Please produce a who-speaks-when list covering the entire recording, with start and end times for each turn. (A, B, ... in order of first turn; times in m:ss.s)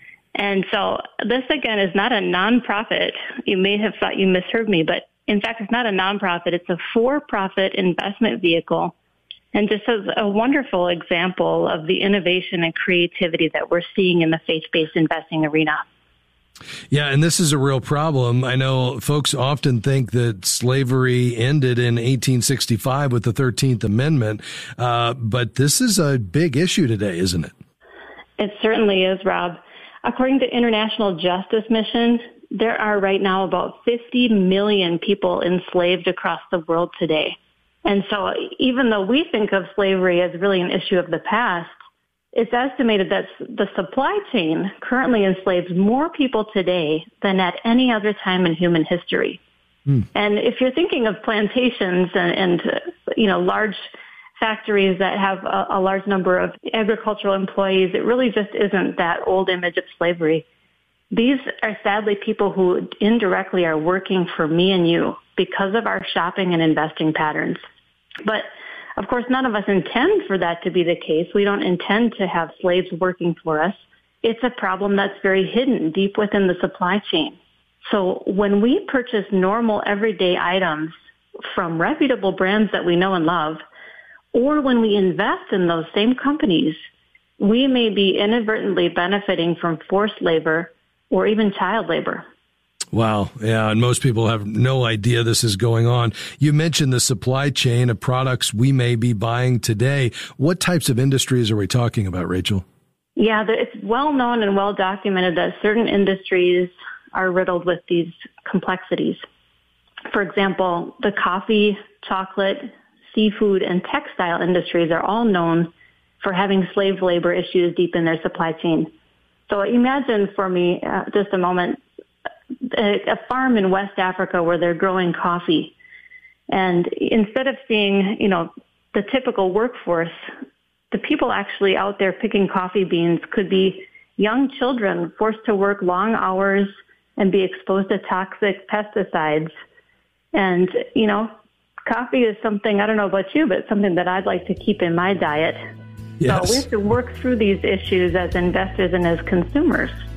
0:00.3-0:08.9 A
0:09.5-0:15.8 A
0:16.9-0:27.5 B
0:28.4-0:41.7 A
0:42.3-0:49.4 A
0:50.1-0:53.9 A
0:54.4-1:00.4 A
1:01.1-1:07.6 A
1:08.2-1:20.9 A
1:21.5-1:23.6 A
1:24.3-1:26.8 A
1:27.4-1:32.2 A
1:32.9-1:42.6 B
1:43.2-1:49.2 A
1:50.1-1:55.7 A
1:56.2-1:58.9 A
1:59.5-2:01.8 A
2:02.7-2:05.7 A
2:06.5-2:10.2 A
2:10.9-2:19.5 A
2:20.3-2:21.3 A
2:21.8-2:25.6 A
2:26.2-2:26.6 B
2:26.2-2:30.0 A